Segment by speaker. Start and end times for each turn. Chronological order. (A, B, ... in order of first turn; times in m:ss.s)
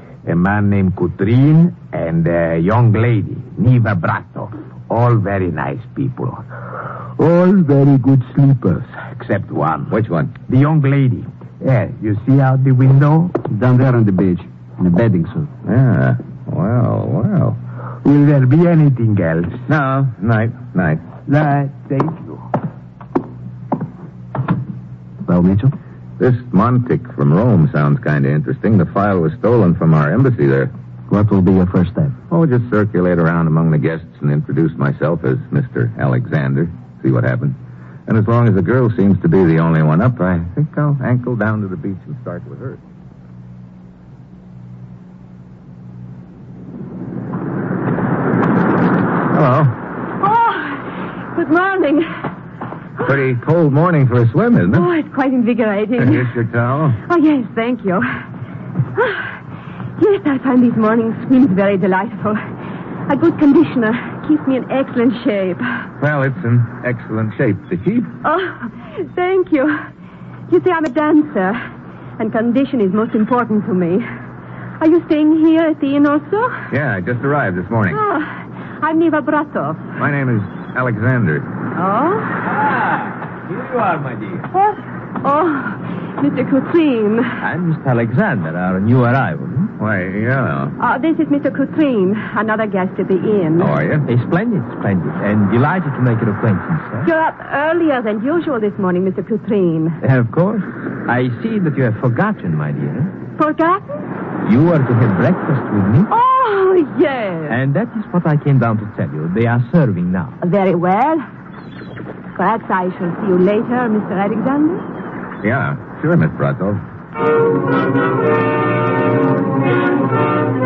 0:00.2-0:06.4 A
0:07.2-0:09.9 A
0:09.9-0:10.3 B
0:10.5-0:13.3 A
0:13.5-0:15.5 C
0:15.6-0:17.6 B
0:18.0-0:19.6 A
0:19.7-0:21.0 B
0:21.3-0:22.4 A
0:25.2-0:25.7 C
0:26.2-0:30.7 B
0:31.1-0:32.1 C
0:32.3-0:42.8 B
0:49.3-0:49.8 B
0:50.2-0:52.2 D
0:53.0-0:54.9 B
0:54.7-0:56.4 D
0:56.0-0:57.0 B
0:57.0-0:58.1 D
0:59.0-0:59.3 D
1:00.0-1:02.4 D
1:03.1-1:05.6 D
1:06.0-1:08.2 B
1:08.2-1:09.8 D
1:10.5-1:11.6 D
1:12.2-1:14.1 D
1:14.8-1:16.6 D
1:16.7-1:18.0 B
1:17.9-1:19.8 D
1:20.0-1:21.5 B
1:21.7-1:22.4 D
1:23.5-1:24.5 E
1:24.5-1:27.3 D
1:27.4-1:29.7 E
1:29.8-1:30.7 B
1:30.8-1:33.7 D
1:33.6-1:34.1 B
1:34.1-1:37.1 E
1:37.0-1:40.0 D
1:40.0-1:43.1 E
1:43.4-1:43.9 D
1:44.4-1:46.1 E
1:46.1-1:47.6 D
1:47.5-1:50.4 E
1:50.4-1:51.2 D
1:52.4-1:54.8 D
1:55.4-1:56.8 B